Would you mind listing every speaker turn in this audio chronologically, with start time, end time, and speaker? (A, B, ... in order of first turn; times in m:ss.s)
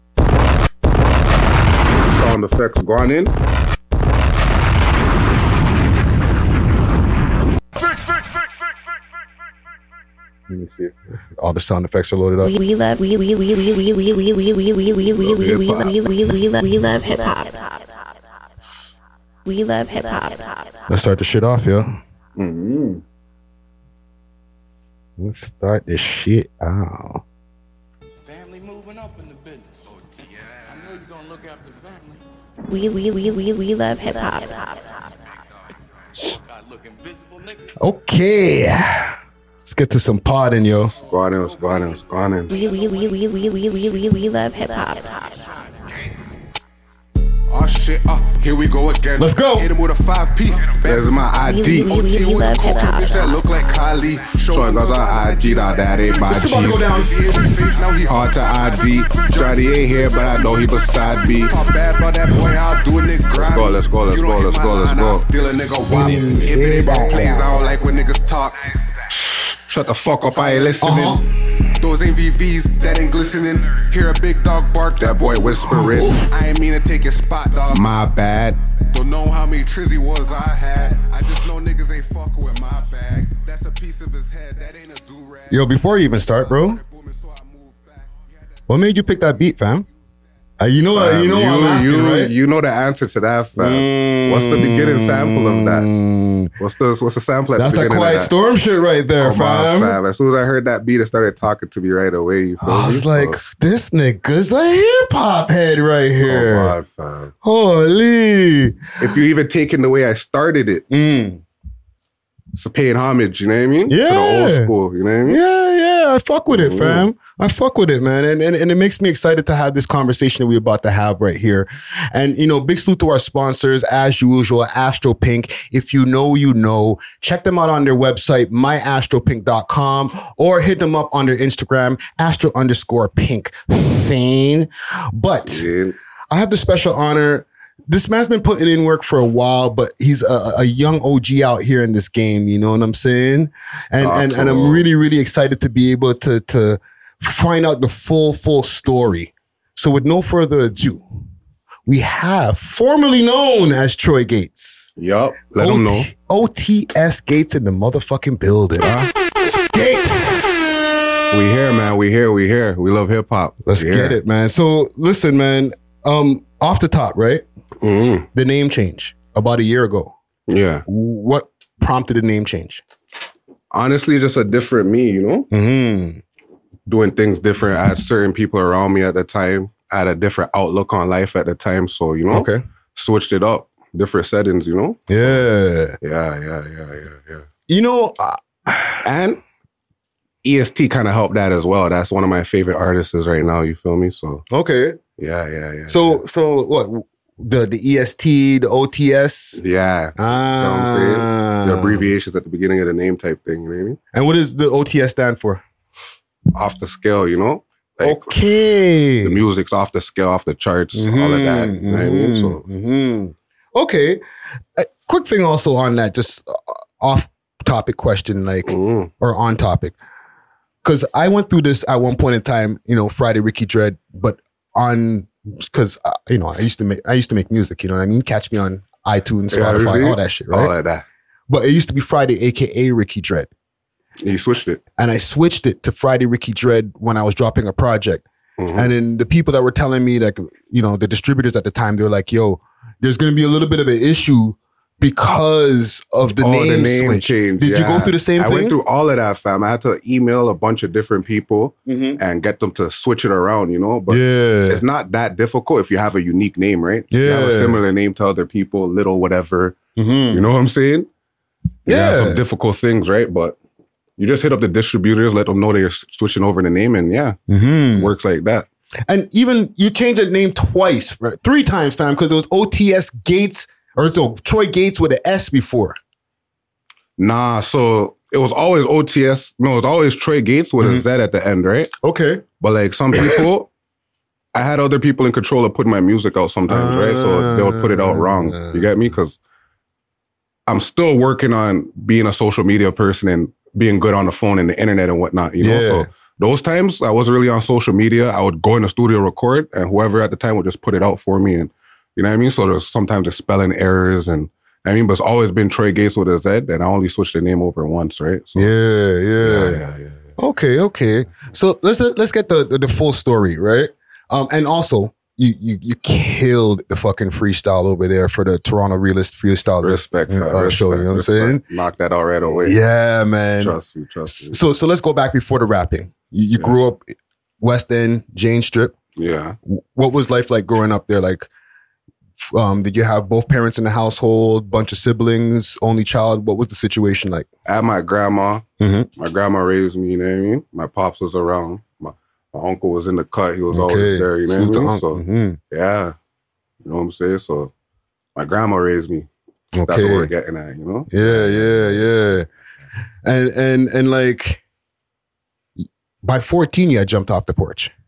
0:02.0-0:03.3 A
0:10.5-0:10.9 A
0:11.4-0:12.5 B
0:12.4-0:18.4 C
0:15.2-0:15.9 A
0:19.4-0:20.9 C
0:20.9-0:22.0 B
0:22.4-0:23.0 A
0:25.2-0:27.2 B
0:28.2-0:32.2 D
0:32.7-0:35.1 C
0:35.0-0:35.3 D
0:36.1-0:37.7 D
0:37.8-0:41.0 B
0:41.0-0:42.5 D
0:41.1-0:42.6 A
0:42.5-0:45.6 C
0:45.2-0:46.1 D
0:47.5-1:09.1 E
0:49.2-0:49.7 B
0:50.8-0:51.9 A
0:51.3-0:53.4 C
0:54.5-0:56.9 A
0:56.2-0:57.3 B
0:58.0-1:01.6 A
1:03.3-1:05.3 A
1:05.8-1:07.7 B
1:09.1-1:11.2 A
1:10.3-1:10.9 E
1:10.8-1:11.2 B
1:11.7-1:18.0 E
1:15.0-1:16.1 A
1:15.6-1:16.5 B
1:17.7-1:18.6 A
1:18.8-1:25.6 E
1:25.5-1:26.8 B
1:26.4-1:28.2 E
1:28.7-1:29.9 B
1:30.6-1:32.3 B
1:30.9-1:35.9 A
1:33.6-1:36.5 B
1:36.6-1:38.3 A
1:37.6-1:40.0 B
1:39.2-1:43.4 A
1:42.6-1:46.8 B
1:46.2-1:47.3 A
1:47.4-1:49.2 B
1:49.0-1:50.8 A
1:50.9-1:51.4 B
1:52.5-1:55.4 A
1:53.9-1:54.7 B
1:55.3-2:15.7 B
1:56.5-1:57.1 A
2:15.4-2:16.0 A
2:16.3-2:31.0 B
2:24.0-2:24.9 A
2:31.8-2:34.9 B
2:35.0-2:36.1 A
2:35.6-2:38.9 B
2:38.8-2:39.1 A
2:39.4-2:40.6 B
2:41.3-2:44.2 A
2:43.6-2:47.4 B
2:47.8-2:48.3 A
2:48.3-2:50.1 B
2:50.5-2:50.8 A
2:50.8-2:52.8 B
2:53.7-2:55.5 A
2:55.5-2:56.2 B
2:56.9-3:05.4 A
3:02.3-3:02.6 B
3:05.1-3:06.0 B
3:06.0-3:07.4 A
3:07.7-3:09.0 B
3:09.0-3:09.4 A
3:10.4-3:14.4 A
3:14.5-3:15.0 B
3:15.2-3:16.2 A
3:15.9-3:19.6 B
3:19.6-3:24.0 A
3:20.2-3:22.1 B
3:24.1-3:25.6 B
3:26.5-3:28.3 A
3:28.0-3:29.4 B
3:29.2-3:32.6 A
3:30.9-3:34.2 B
3:34.8-3:39.9 B
3:38.7-3:39.1 A
3:40.8-3:50.7 B
3:49.5-3:51.0 A
3:51.5-3:53.5 B
3:54.2-3:54.8 A
3:55.0-4:08.8 B
3:58.6-3:58.9 A
4:06.4-4:19.8 A
4:11.9-4:12.2 B
4:14.1-4:14.8 B
4:17.1-4:17.8 B
4:20.0-4:20.4 B
4:20.3-4:21.1 A
4:21.9-4:22.4 B
4:21.9-4:23.6 A
4:24.2-4:27.4 A
4:27.5-4:28.1 B
4:28.0-4:28.7 A
4:29.1-4:36.0 B
4:37.2-4:41.9 A
4:42.0-4:42.4 B
4:42.6-4:43.7 A
4:43.1-4:43.4 B
4:44.5-4:49.4 A
4:46.7-4:48.8 B
4:50.7-5:08.7 A
4:55.6-4:56.1 B
5:08.6-5:09.8 B
5:09.4-5:10.2 A
5:10.4-5:21.6 B
5:19.8-5:22.8 A
5:22.5-5:28.9 B
5:23.6-5:24.6 A
5:29.2-5:29.6 A
5:29.6-5:31.5 B
5:32.4-5:37.5 B
5:37.6-5:38.6 A
5:38.8-5:39.1 B
5:39.2-5:46.1 A
5:43.7-5:45.6 B
5:46.8-5:47.7 A
5:48.3-5:49.3 A
5:49.7-5:50.3 B
5:49.8-5:52.1 A
5:51.1-5:52.5 B
5:53.2-5:54.6 B
5:55.8-5:57.9 B